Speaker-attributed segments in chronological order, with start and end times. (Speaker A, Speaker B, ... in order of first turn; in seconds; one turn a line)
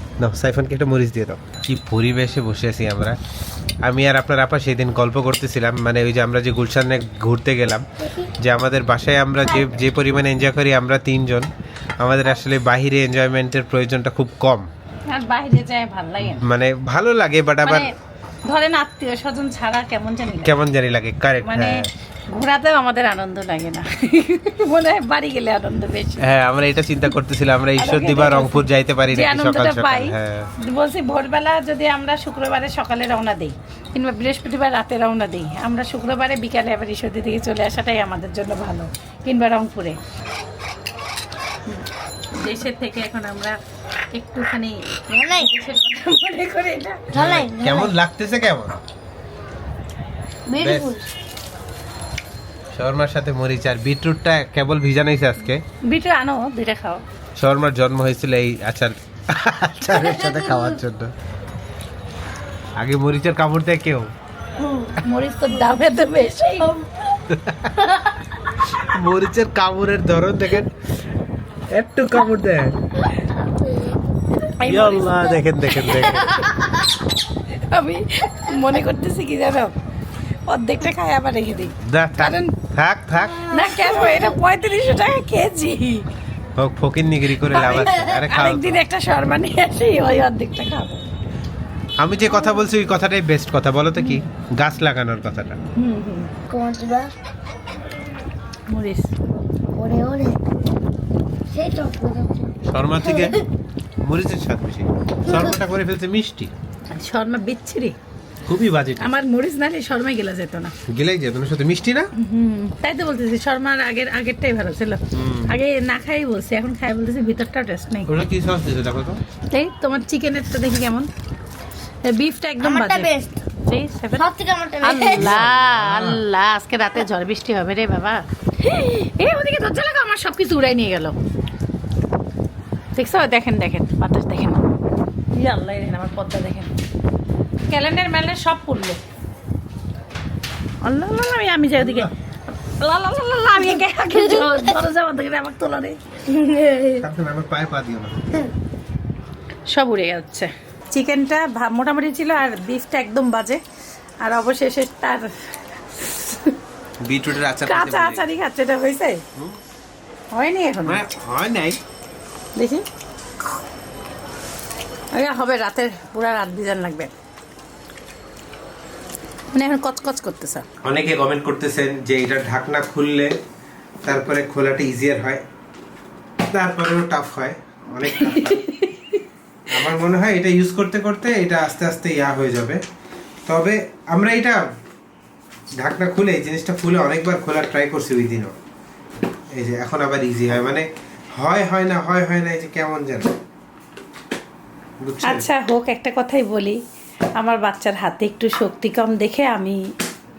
Speaker A: 0.2-3.2
Speaker A: 3.8-14.7
Speaker B: 15.1-16.4
Speaker A: 16.2-17.9
Speaker B: 17.6-17.9
Speaker B: 18.4-20.5
Speaker A: 20.4-21.9
Speaker B: 21.4-26.3
Speaker A: 26.2-30.5
Speaker B: 27.8-40.0
Speaker B: 42.4-43.6
Speaker B: 44.1-47.0
Speaker C: 45.1-45.5
Speaker A: 47.1-48.8
Speaker C: 47.1-47.9
Speaker C: 50.5-51.0
Speaker A: 50.6-50.9
Speaker A: 52.7-55.6
Speaker B: 55.9-57.0
Speaker A: 57.4-61.1
Speaker C: 59.9-60.8
Speaker A: 62.8-64.1
Speaker C: 64.6-65.0
Speaker B: 65.0-66.8
Speaker A: 67.3-67.7
Speaker A: 68.8-70.7
Speaker A: 71.7-72.8
Speaker C: 73.7-73.9
Speaker B: 74.5-76.5
Speaker A: 74.6-76.5
Speaker B: 77.5-79.7
Speaker B: 80.5-82.5
Speaker A: 81.8-83.5
Speaker B: 83.4-86.1
Speaker A: 86.6-88.8
Speaker B: 87.3-91.1
Speaker A: 92.0-95.6
Speaker B: 92.2-92.7
Speaker B: 94.0-94.3
Speaker B: 95.8-96.3
Speaker C: 96.5-97.1
Speaker B: 98.7-99.1
Speaker C: 99.7-100.6
Speaker C: 101.5-103.4
Speaker A: 102.7-103.4
Speaker A: 104.0-106.5
Speaker C: 105.3-105.5
Speaker B: 106.9-108.0
Speaker A: 108.5-109.1
Speaker B: 109.0-110.7
Speaker A: 110.9-112.1
Speaker B: 112.2-118.2
Speaker A: 115.1-115.5
Speaker A: 118.1-119.2
Speaker B: 119.5-121.1
Speaker B: 122.0-124.3
Speaker C: 122.6-123.4
Speaker C: 124.1-125.4
Speaker B: 124.8-131.2
Speaker A: 125.1-126.2
Speaker B: 132.9-134.6
Speaker B: 135.3-136.7
Speaker B: 137.7-139.0
Speaker B: 140.8-142.1
Speaker A: 141.8-142.1
Speaker B: 142.8-147.0
Speaker C: 144.1-144.7
Speaker A: 147.0-148.4
Speaker B: 149.7-153.6
Speaker B: 154.2-155.3
Speaker B: 155.9-156.6
Speaker A: 157.0-158.3
Speaker B: 157.7-159.2
Speaker B: 160.3-161.1
Speaker A: 160.8-161.8
Speaker B: 162.6-162.8
Speaker B: 165.1-167.1
Speaker B: 169.5-170.6
Speaker A: 170.8-173.3
Speaker A: 174.0-175.4
Speaker A: 176.5-178.7
Speaker B: 178.0-179.2
Speaker A: 179.7-182.8
Speaker A: 183.5-184.6
Speaker A: 185.8-188.6
Speaker A: 189.5-190.9
Speaker A: 191.4-193.3
Speaker A: 195.0-195.5
Speaker B: 195.2-196.8
Speaker B: 197.4-199.8